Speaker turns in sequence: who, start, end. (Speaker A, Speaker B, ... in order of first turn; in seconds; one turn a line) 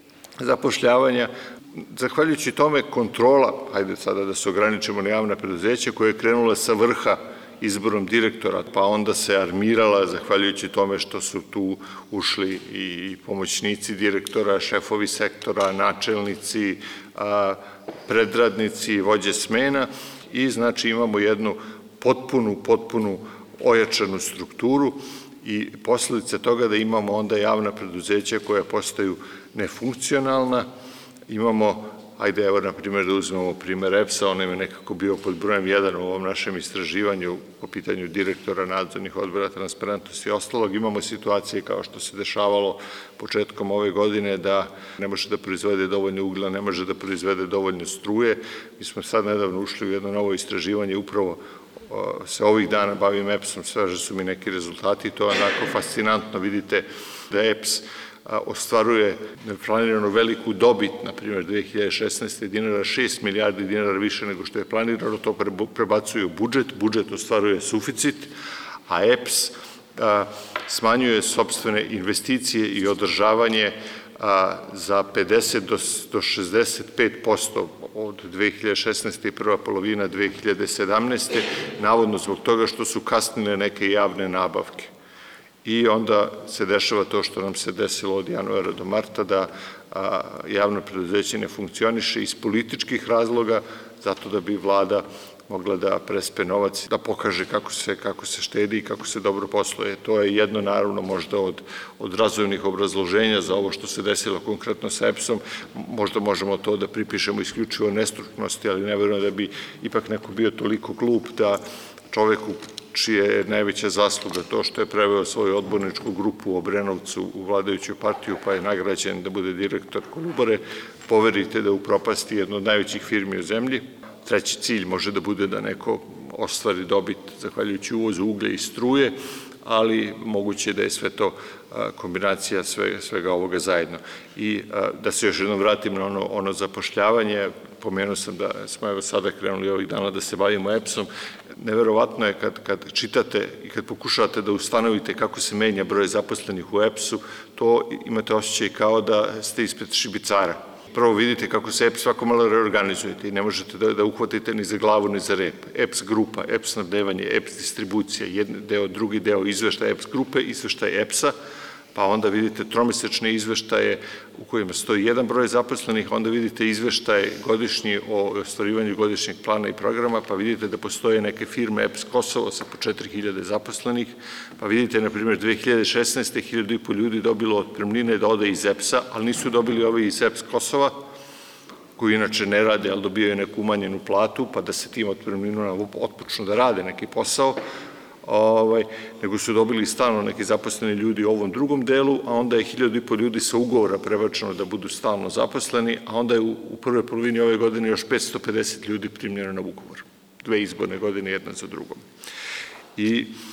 Speaker A: 0.4-30.6
Speaker A: 31.3-68.3
Speaker A: 68.9-84.9
Speaker A: 85.6-161.3
Speaker A: 161.9-180.9
Speaker A: 182.0-187.6
Speaker A: 188.2-202.0
Speaker A: 202.9-203.3